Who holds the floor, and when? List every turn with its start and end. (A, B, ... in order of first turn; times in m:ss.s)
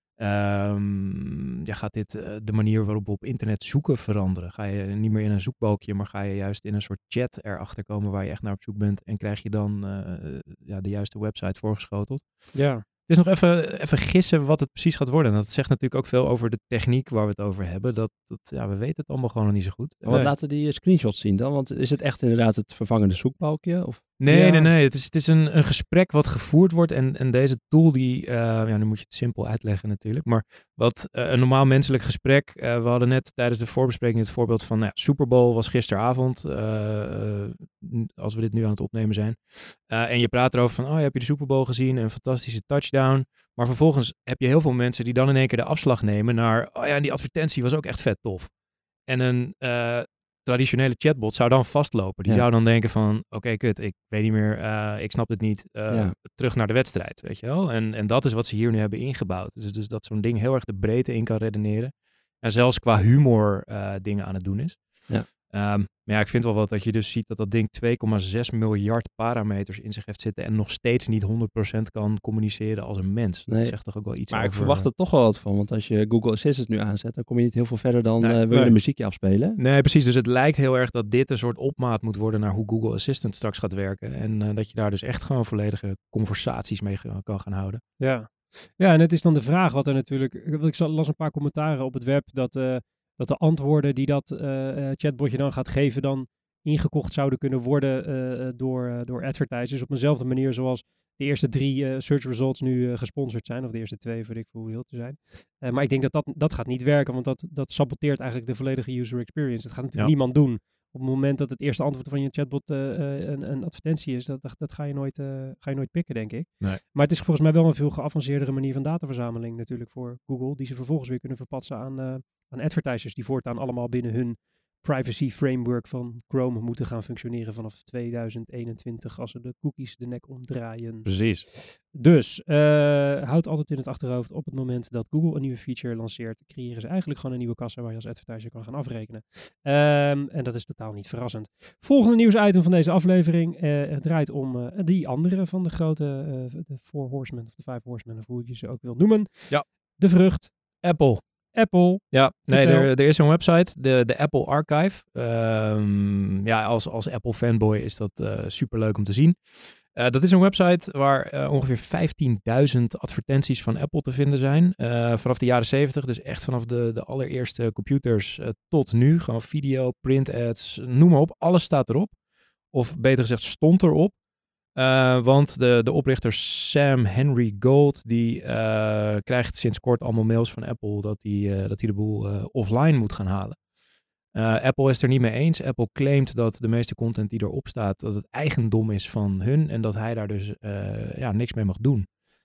0:00.2-0:20.2 A
0:12.5-0:12.8 B
0:20.0-0:24.0 C
0:20.1-0:20.3 B
0:24.2-0:48.5 A
0:24.3-0:24.7 B
0:49.1-1:14.9 A
0:55.9-0:56.2 C
1:13.5-1:19.6 C
1:18.2-1:18.8 A
1:19.6-1:27.8 A
1:28.0-2:30.7 B
2:11.0-2:11.5 A
2:30.8-2:31.2 A
2:31.5-2:32.9 B
2:32.1-2:52.2 A
2:52.7-2:54.2 A
2:54.8-3:03.6 A
3:04.3-3:12.1 A